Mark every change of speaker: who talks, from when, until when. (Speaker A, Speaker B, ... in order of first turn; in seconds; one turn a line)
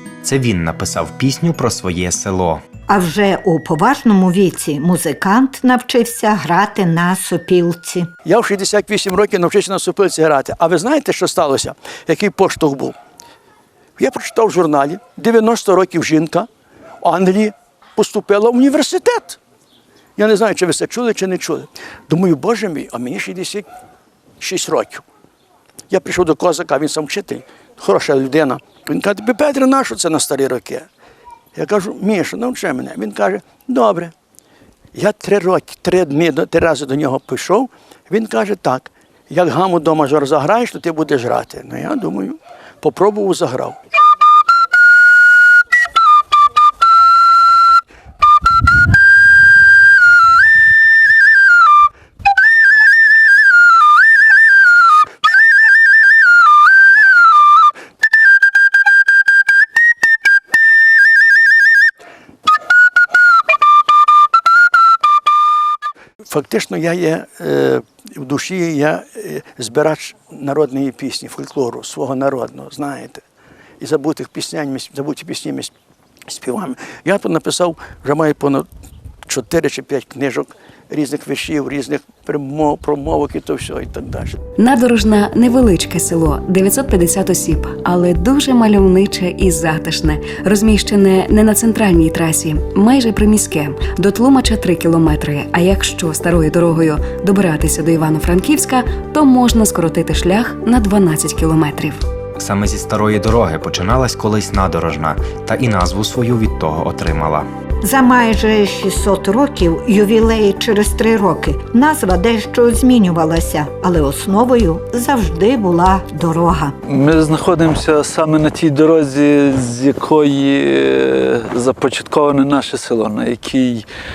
Speaker A: 0.2-2.6
Speaker B: 2.9-8.1
Speaker C: 8.2-13.0
Speaker C: 14.0-16.5
Speaker C: 17.0-19.4
Speaker C: 20.2-23.7
Speaker C: 24.4-25.0
Speaker C: 25.9-30.9
Speaker C: 31.6-34.1
Speaker C: 34.9-43.8
Speaker C: 66.2-73.2
Speaker C: 73.8-75.7
Speaker C: 76.3-78.7
Speaker C: 79.3-84.4
Speaker D: 84.6-102.0
Speaker A: 102.4-107.5
Speaker B: 107.8-116.8
Speaker E: 116.9-123.9